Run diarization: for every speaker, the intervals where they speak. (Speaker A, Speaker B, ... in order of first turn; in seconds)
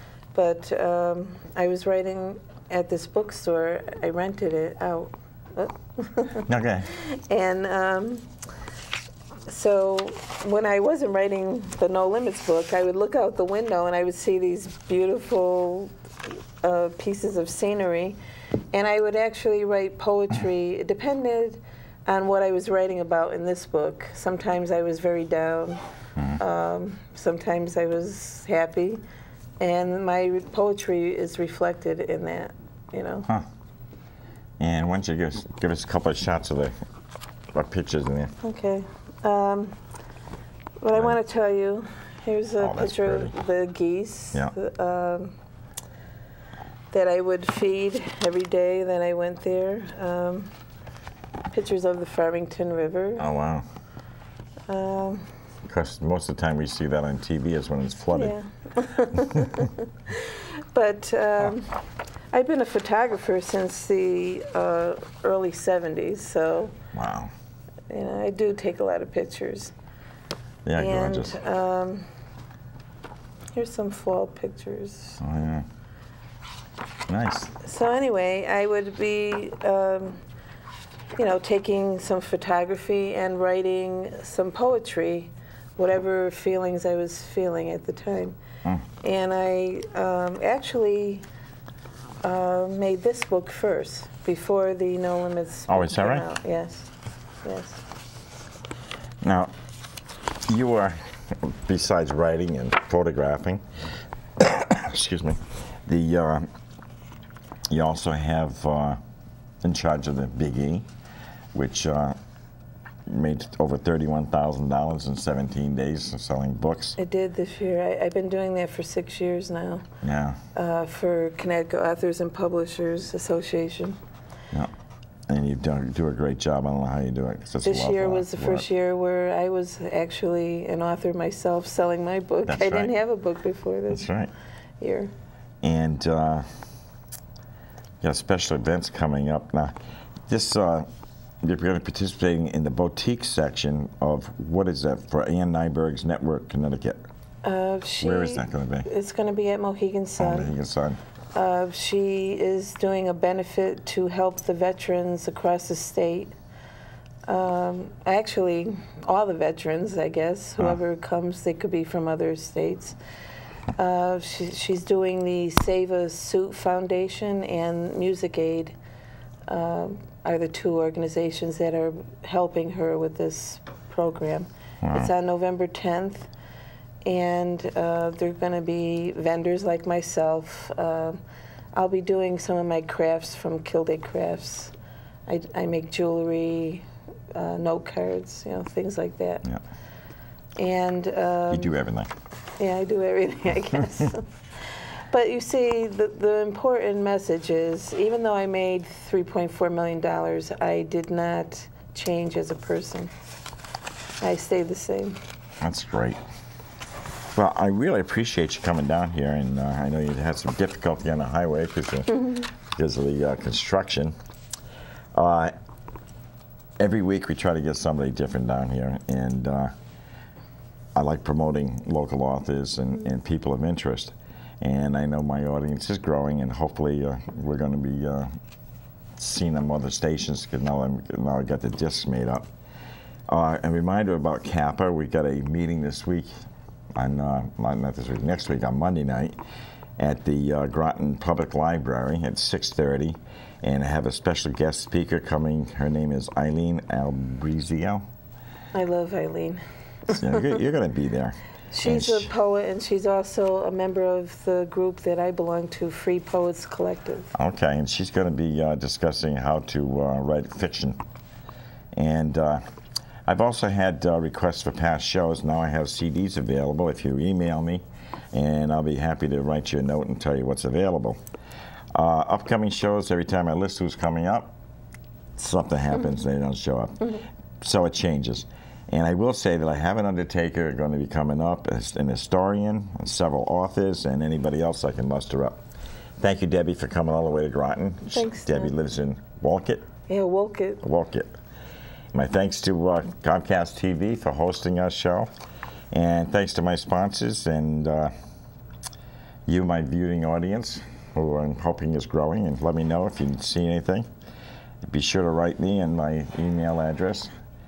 Speaker A: 0.3-8.3, 9.5-15.9, 16.6-18.2, 18.7-25.8, 26.4-29.0, 29.6-33.3, 38.4-39.8, 40.8-45.3, 46.9-50.5, 51.5-53.2, 54.7-55.3, 58.1-66.7, 67.9-69.7, 70.8-72.1, 73.5-75.2, 77.6-80.2, 81.2-88.4, 89.0-91.2, 92.2-96.9, 97.4-97.8, 117.0-119.9, 120.5-124.0, 127.6-134.1, 134.8-135.1, 147.4-150.5, 151.3-156.3, 157.3-163.0, 163.8-168.7, 169.5-176.3, 177.0-181.2, 181.7-184.7, 185.3-189.4, 190.6-191.7, 192.6-203.1, 204.2-205.2, 248.7-250.6, 251.7-257.3, 288.1-288.7, 290.1-290.8
Speaker B: 6.5-6.9, 34.6-36.7, 37.5-38.3, 42.6-43.3, 53.2-53.6, 55.6-58.4, 66.9-67.3, 70.7-71.4, 75.2-75.7, 77.1-77.5, 95.7-96.2, 99.2-99.5, 100.5-103.6, 104.4-106.5, 107.7-109.0, 109.6-110.9, 111.5-112.2, 113.1-117.0, 120.0-120.4, 125.3-128.7, 132.4-132.9, 133.9-134.3, 135.6-136.6, 138.0-140.9, 141.4-147.0, 148.0-148.9, 150.2-151.0, 174.8-175.1, 191.5-192.1, 205.6-206.2, 207.3-214.1, 215.1-215.5, 216.8-219.7, 220.9-228.3, 229.2-232.5, 233.3-236.3, 236.9-239.3, 240.0-248.0, 250.1-252.3, 257.3-261.0, 261.9-262.6, 263.2-271.2, 271.9-274.6, 275.4-285.6, 286.2-289.9, 290.8-291.4, 292.1-295.3, 295.9-298.1, 299.4-304.1, 304.8-307.3